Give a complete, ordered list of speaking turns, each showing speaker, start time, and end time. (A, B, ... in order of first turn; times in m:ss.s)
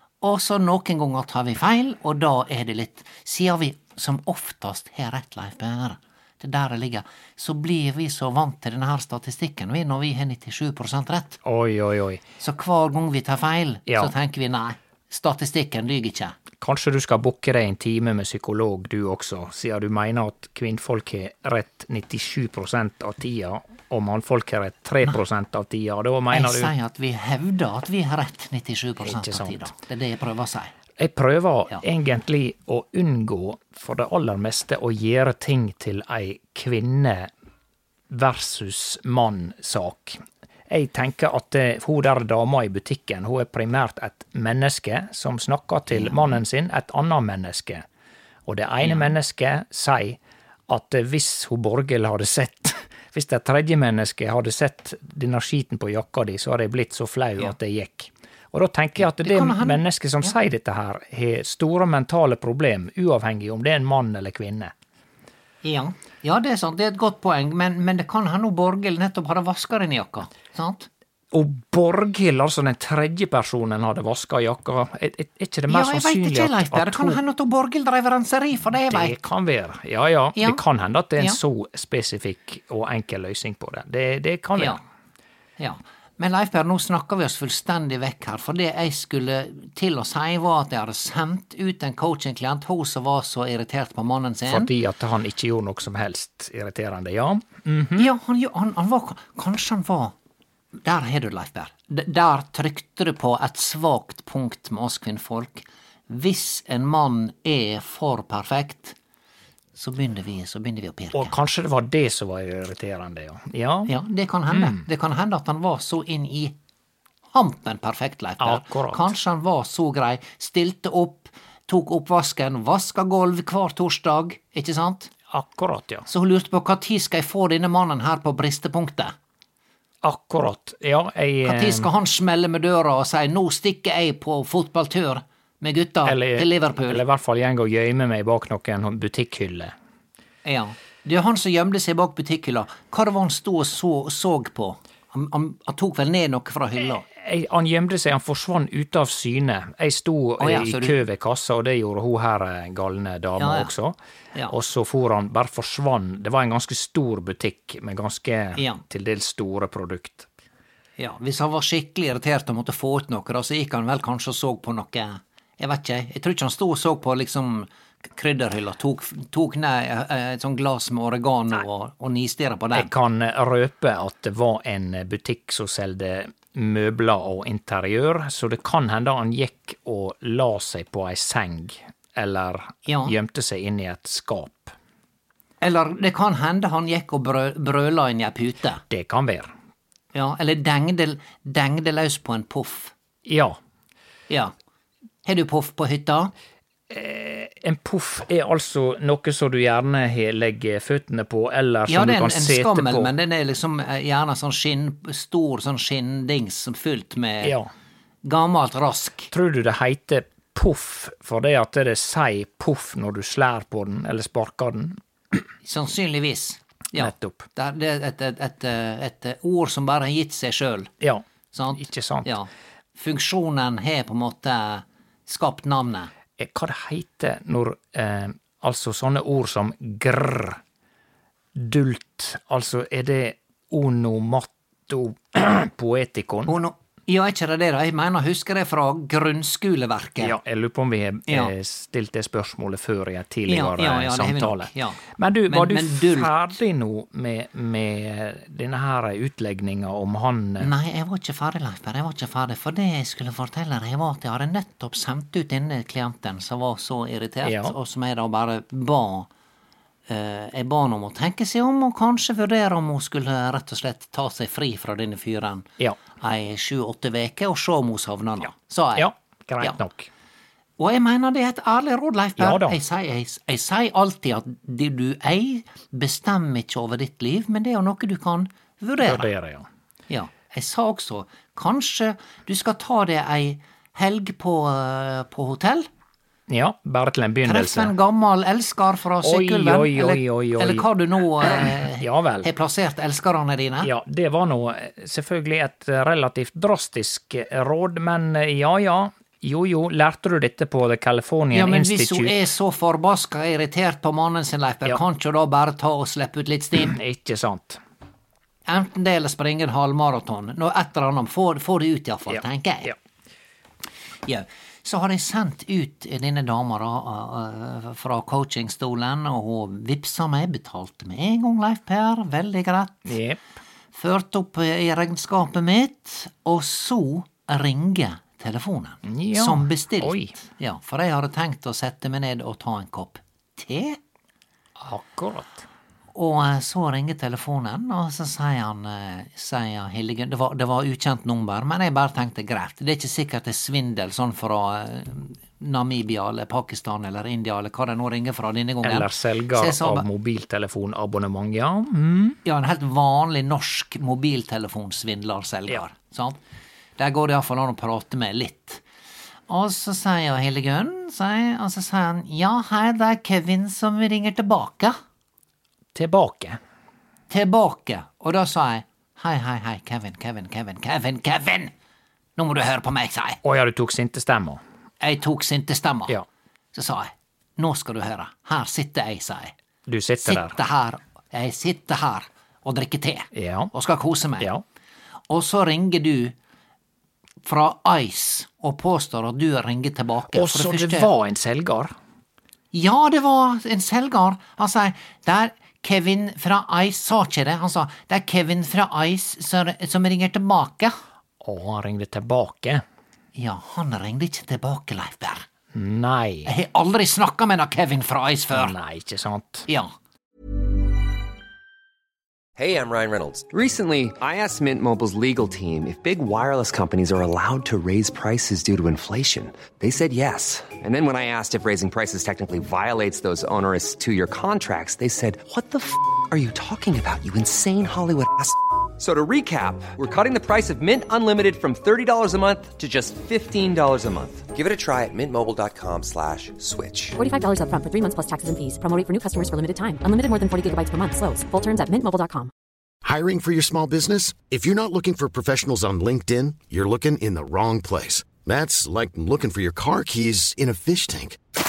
0:00.2-0:11.4 A
0:11.4-0:12.2 B
0:12.4-0:16.4 A
0:13.9-0:14.1 B
0:16.6-0:26.7 B
0:26.3-0:30.7 A
0:29.0-0:29.7 B
0:31.0-0:37.3 B
0:38.1-0:47.8 B
0:45.9-0:46.4 A
0:48.5-1:04.7 B
0:48.8-0:49.1 A
0:59.0-1:00.3 A
1:05.6-1:10.9 A
1:11.3-1:17.2 B
1:15.7-1:19.2 A
1:18.9-1:24.8 B
1:25.6-1:34.7 A
1:34.5-1:38.1 B
1:38.0-1:40.1 A
1:40.8-1:49.0 A
1:49.8-1:51.4 A
1:51.1-1:53.9 B
1:53.9-1:56.6 A
1:54.5-1:54.8 B
1:57.3-2:05.1 A
1:58.4-1:59.1 B
2:05.3-2:06.1 B
2:06.1-2:09.1 A
2:10.0-2:11.9 B
2:11.4-2:17.0 A
2:16.1-2:19.7 B
2:20.4-2:27.1 A
2:27.1-2:34.0 B
2:30.4-2:31.0 A
2:33.4-2:33.7 A
2:34.5-2:40.3 B
2:38.6-2:38.8 A
2:41.0-2:52.9 A
2:52.7-3:04.7 B
3:02.9-3:03.1 A
3:05.6-3:08.8 A
3:08.9-3:09.5 B
3:10.1-3:12.9 A
3:13.2-3:13.6 B
3:15.2-3:16.3 A
3:16.9-3:23.1 B
3:21.9-3:27.6 A
3:27.4-3:27.7 B
3:28.2-3:29.3 A
3:29.3-3:35.0 B
3:35.6-3:40.9 A
3:37.0-3:37.5 B
3:41.0-3:42.3 B
3:41.5-3:46.1 A
3:46.4-3:50.6 B
3:51.6-3:56.5 B
3:56.5-4:00.4 A
4:00.2-4:10.7 B
4:01.3-4:01.5 A
4:03.5-4:06.3 A
4:10.6-4:19.3 A
4:17.4-4:17.8 B
4:20.1-4:29.1 A
4:29.0-4:30.1 B
4:30.8-4:39.3 A
4:32.4-4:32.8 B
4:39.0-4:39.7 B
4:40.1-4:45.9 A
4:46.5-4:47.9 B
4:47.5-4:53.9 A
4:49.2-4:50.9 B
4:51.4-4:52.5 B
4:53.8-5:02.4 B
5:01.5-5:07.0 A
5:06.7-5:07.8 B
5:08.7-5:12.9 A
5:12.3-5:13.0 B
5:14.2-5:23.2 A
5:23.0-5:23.4 B
5:23.9-5:34.0 A
5:29.0-5:30.4 B
5:34.8-5:35.7 B
5:36.2-5:50.0 A
5:48.8-5:52.4 B
5:52.4-5:56.4 A
5:57.0-5:58.8 A
5:59.5-6:05.0 A
6:06.0-6:06.6 B
6:07.3-6:11.7 A
6:12.4-6:13.4 A
6:13.4-6:14.6 B
6:15.0-6:16.2 A
6:16.7-6:19.5 A
6:19.9-6:20.6 B
6:20.2-6:24.5 A
6:23.3-6:23.7 B
6:25.3-6:26.4 A
6:27.4-6:31.1 A
6:30.3-6:31.9 B
6:32.7-6:41.0 A
6:41.4-6:42.8 B
6:43.4-6:45.5 A
6:45.7-6:46.5 B
6:46.5-6:48.8 A
6:48.5-6:49.7 B
6:52.6-7:17.2 C
7:17.2-7:22.5 D
7:23.0-7:31.4 E